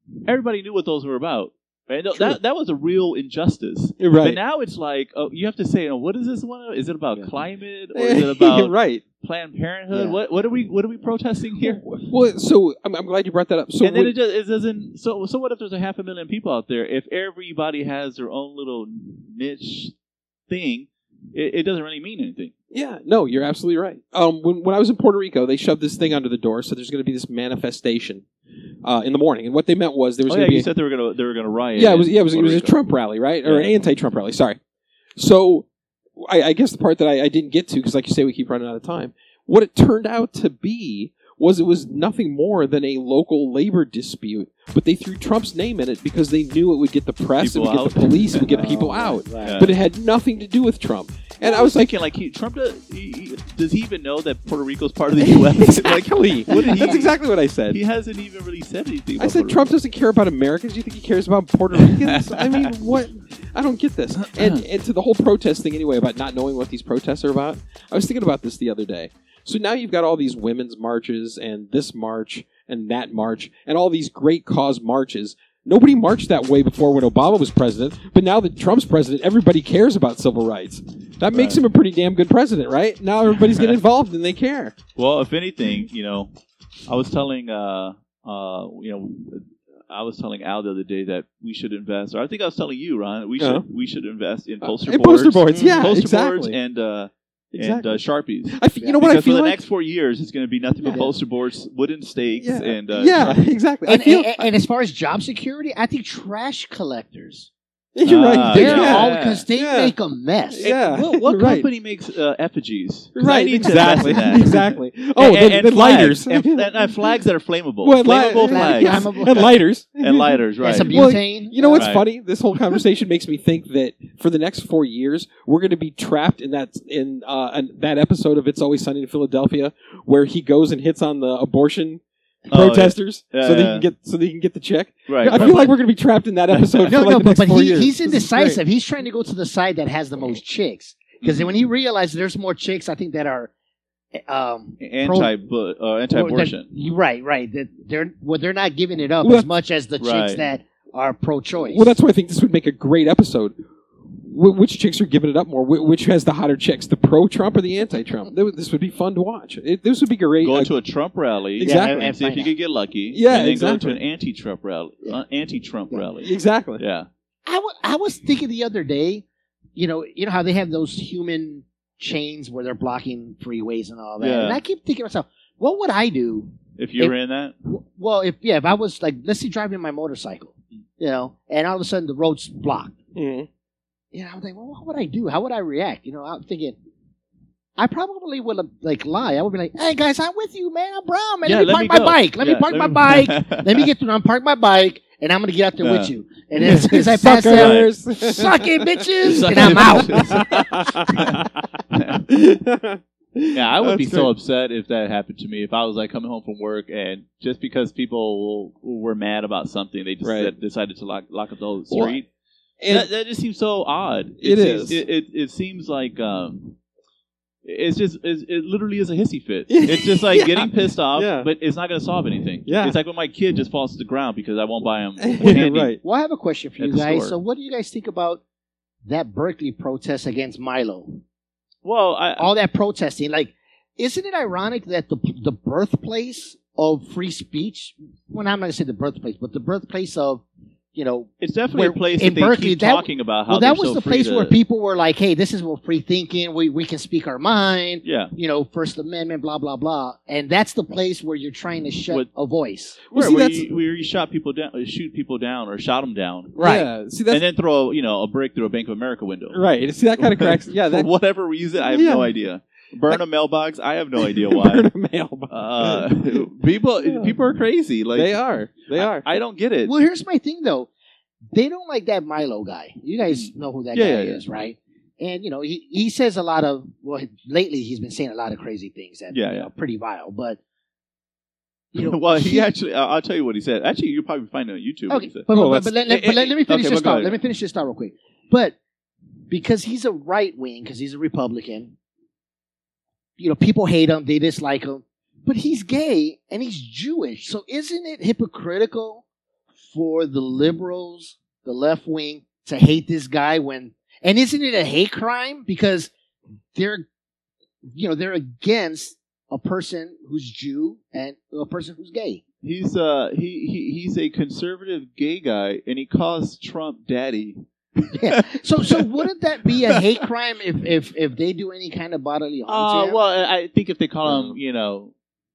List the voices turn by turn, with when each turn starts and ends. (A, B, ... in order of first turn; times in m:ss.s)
0:00.2-0:11.9 A
0:04.0-0:04.4 B
0:07.9-0:09.0 B
0:09.9-0:10.2 C
0:11.6-0:14.1 B
0:13.8-0:19.9 A
0:20.5-0:22.5 A
0:22.7-0:28.2 B
0:28.8-0:30.7 B
0:30.3-0:32.8 A
0:31.8-0:34.6 B
0:33.4-0:33.7 A
0:35.2-0:51.9 B
0:47.4-0:48.8 A
0:48.5-0:49.6 C
0:49.4-0:49.8 A
0:51.4-0:57.2 A
0:55.2-0:57.8 B
0:57.7-0:59.6 A
0:59.2-1:24.8 B
1:01.7-1:02.7 A
1:04.2-1:04.6 A
1:21.3-1:21.6 A
1:23.3-1:23.8 A
1:25.0-1:26.3 A
1:26.9-1:43.5 A
1:33.4-1:33.7 B
1:34.6-1:36.6 B
1:35.5-1:35.9 C
1:37.5-1:39.6 B
1:38.8-1:39.1 C
1:40.9-1:41.1 C
1:42.4-1:44.5 B
1:43.8-1:47.5 C
1:47.9-1:49.9 B
1:48.0-1:49.4 A
1:48.3-1:50.7 C
1:50.5-1:51.7 B
1:50.6-2:00.9 A
1:53.1-1:57.1 B
1:53.8-1:54.1 C
1:57.8-2:18.6 B
1:58.1-1:59.6 C
2:00.6-2:01.9 C
2:01.7-2:02.1 A
2:12.5-2:13.9 A
2:15.1-2:15.8 A
2:15.2-2:15.7 C
2:16.5-2:17.0 A
2:16.9-2:23.5 C
2:21.2-2:21.5 A
2:24.2-2:25.3 C
2:24.8-2:26.7 A
2:26.1-2:31.9 C
2:29.2-2:29.5 B
2:30.0-2:30.4 A
2:31.6-2:33.6 B
2:34.2-2:40.7 B
2:40.4-2:47.1 A
2:41.6-2:42.1 B
2:41.6-2:42.5 C
2:43.1-2:44.0 B
2:46.2-2:46.8 B
2:47.4-2:49.2 C
2:49.8-2:57.1 C
2:54.2-2:54.6 A
2:56.8-2:57.6 A
2:57.7-3:02.9 C
3:03.1-3:03.5 B
3:04.1-3:06.8 C
3:07.8-3:20.4 C
3:11.4-3:13.9 A
3:15.8-3:16.1 A
3:16.6-3:24.3 B
3:17.5-3:17.9 A
3:19.2-3:22.2 A
3:23.5-3:32.3 A
3:30.2-3:30.5 B
3:31.9-3:32.2 B
3:32.8-3:33.1 B
3:32.9-3:36.8 A
3:34.4-3:35.0 B
3:37.6-3:46.0 A
3:39.7-3:41.5 B
3:42.6-3:43.0 B
3:45.2-3:46.0 B
3:45.4-3:48.4 C
3:46.8-3:47.4 A
3:49.0-3:51.2 C
3:51.8-3:52.5 A
3:52.4-4:00.4 C
4:00.9-4:13.0 C
4:01.4-4:04.6 A
4:08.0-4:08.3 A
4:13.1-4:13.7 B
4:13.1-4:19.6 A
4:16.6-4:17.4 B
4:19.5-4:21.1 B
4:20.2-4:24.9 A
4:21.9-4:22.3 B
4:24.2-4:26.4 B
4:25.5-4:29.9 A
4:27.0-4:27.3 B
4:28.1-4:29.3 B
4:29.8-4:30.9 C
4:31.5-4:40.6 C
4:33.3-4:34.4 A
4:39.3-4:39.7 A
4:41.9-4:42.7 C
4:42.0-4:45.5 A
4:45.1-4:48.8 C
4:45.5-4:45.9 B
4:46.0-4:47.4 A
4:49.5-4:51.9 C
4:53.4-4:59.2 C
4:59.8-5:06.1 C
5:06.7-5:07.0 C
5:07.9-5:12.4 C
5:12.6-5:19.1 A
5:18.2-5:23.2 C
5:19.7-5:20.0 A
5:22.7-5:25.1 A
5:24.3-5:24.6 C